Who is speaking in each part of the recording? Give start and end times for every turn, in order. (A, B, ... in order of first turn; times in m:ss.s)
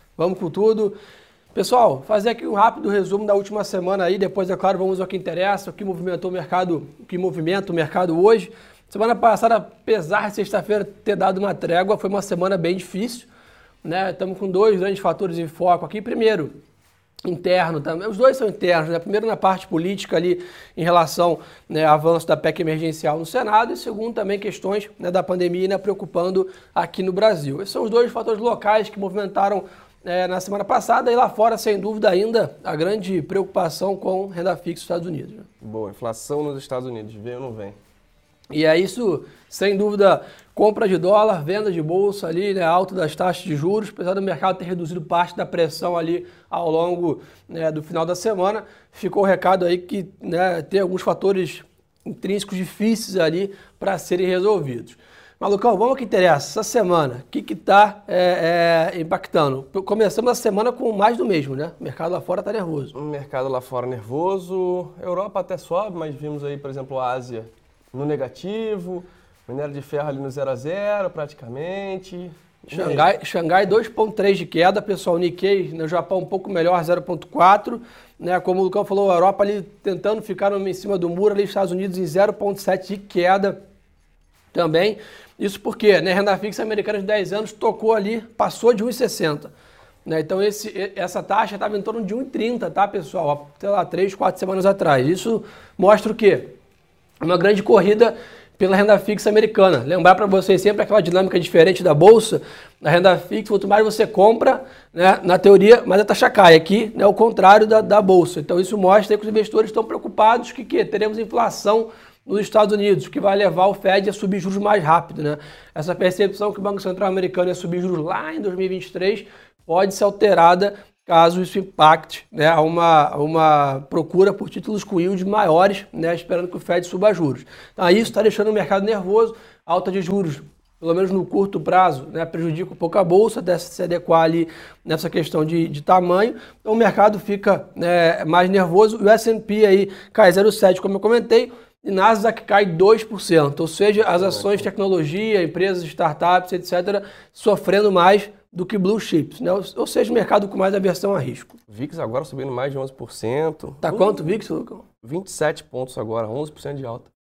0:00.2-0:01.0 A
0:01.5-0:13.3 A
0:13.8-0:16.5 A
0:17.3-0:35.5 A
0:35.6-0:37.8 B
0:38.5-1:03.0 A
1:03.0-1:13.1 B
1:12.7-1:23.6 A
1:24.5-1:29.5 A
1:30.0-1:36.5 A
1:37.2-2:31.6 A
2:24.1-2:24.7 B
2:31.7-2:34.3 B
2:33.8-2:34.8 A
2:35.0-2:37.1 B